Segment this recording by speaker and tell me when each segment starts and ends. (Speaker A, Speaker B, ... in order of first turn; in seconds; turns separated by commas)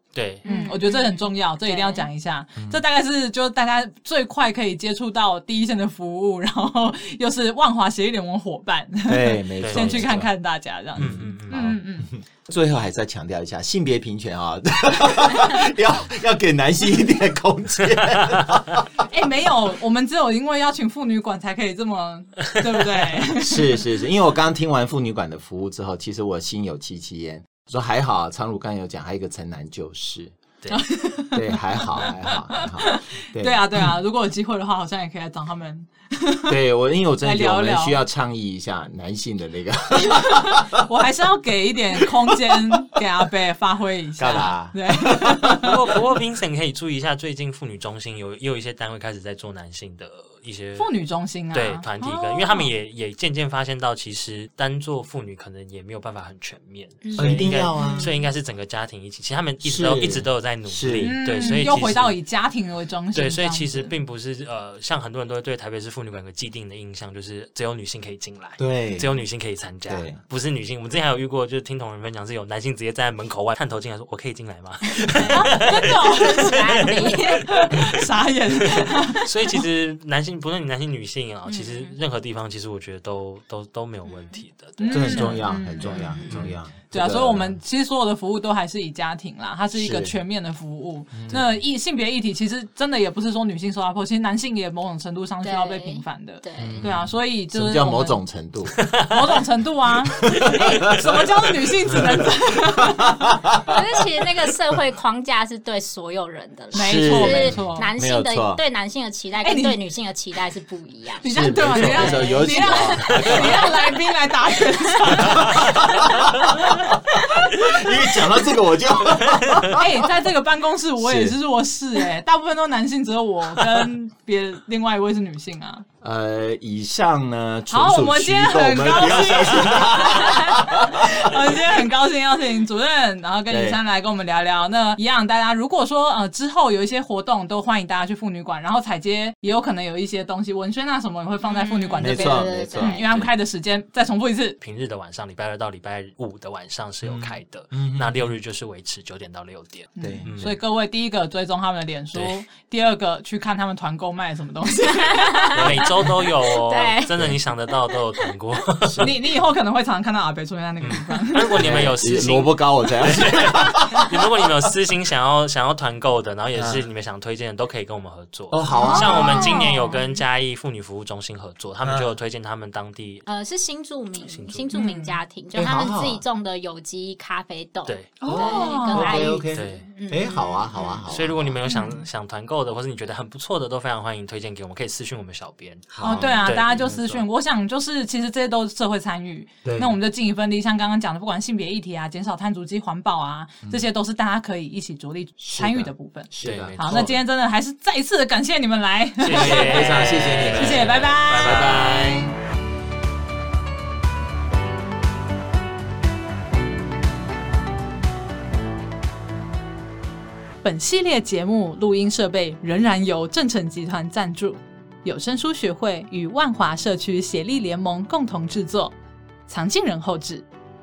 Speaker A: 0.1-0.5, Speaker B: 0.4-2.1, Speaker C: 0.5-12.1, Speaker D: 9.1-10.3, Speaker A: 9.6-10.3, Speaker A: 11.0-11.8, Speaker D: 11.0-11.3, Speaker D: 12.3-18.9, Speaker C: 19.0-23.8, Speaker D: 23.4-30.4, Speaker C: 30.7-36.6, Speaker D: 31.3-33.9, Speaker D: 36.5-40.8, Speaker C: 37.2-38.0, Speaker C: 40.0-45.8, Speaker D: 44.2-45.8, Speaker A: 45.5-50.9, Speaker C: 50.8-52.7, Speaker A: 51.5-62.2, Speaker B: 57.0-58.3, Speaker D: 57.2-58.1, Speaker D: 59.6-62.0, Speaker C: 61.0-63.9, Speaker A: 63.1-85.6, Speaker D: 68.6-69.1, Speaker D: 69.9-70.2, Speaker B: 74.9-77.5, Speaker C: 75.3-79.6, Speaker B: 81.5-81.9, Speaker B: 84.1-84.4, Speaker C: 84.8-86.2, Speaker D: 84.9-87.6, Speaker B: 85.8-86.5, Speaker C: 86.9-98.2, Speaker D: 89.7-90.2, Speaker D: 91.1-91.6, Speaker B: 95.4-96.9, Speaker D: 96.6-98.9, Speaker A: 98.8-99.3, Speaker C: 99.1-103.3, Speaker D: 100.1-104.0, Speaker B: 103.7-113.9, Speaker C: 106.7-107.9, Speaker D: 106.7-108.6, Speaker C: 109.4-109.8, Speaker C: 111.2-117.7, Speaker D: 111.2-113.7, Speaker D: 115.2-120.1, Speaker A: 115.4-115.7, Speaker A: 119.1-119.8, Speaker C: 119.7-125.9, Speaker D: 121.0-121.4, Speaker D: 126.0-131.4, Speaker C: 127.7-144.6, Speaker D: 133.5-133.8, Speaker B: 141.4-143.1, Speaker D: 142.0-143.3, Speaker A: 144.6-150.6, Speaker D: 147.0-148.3, Speaker C: 150.0-156.1, Speaker D: 150.0-150.3, Speaker A: 152.1-152.4, Speaker B: 155.0-157.1, Speaker A: 155.5-159.2, Speaker D: 157.1-157.4, Speaker B: 157.9-158.3, Speaker D: 158.8-159.2, Speaker C: 159.0-161.7, Speaker A: 160.8-173.3, Speaker D: 161.5-164.5, Speaker D: 166.6-166.9, Speaker D: 168.5-169.7, Speaker C: 168.7-170.0, Speaker D: 171.8-172.1, Speaker B: 173.3-181.1, Speaker A: 174.2-174.7, Speaker C: 174.7-175.2, Speaker D: 175.6-176.2, Speaker A: 177.9-178.1, Speaker C: 178.2-179.4, Speaker D: 178.2-181.6, Speaker A: 179.5-179.9, Speaker A: 181.1-187.2, Speaker C: 181.7-182.0, Speaker D: 185.9-187.0, Speaker C: 186.0-202.2, Speaker D: 189.6-190.0, Speaker D: 195.4-197.2, Speaker A: 196.4-197.2, Speaker A: 199.2-202.1, Speaker D: 199.3-202.4, Speaker C: 210.6-218.9, Speaker C: 219.5-220.4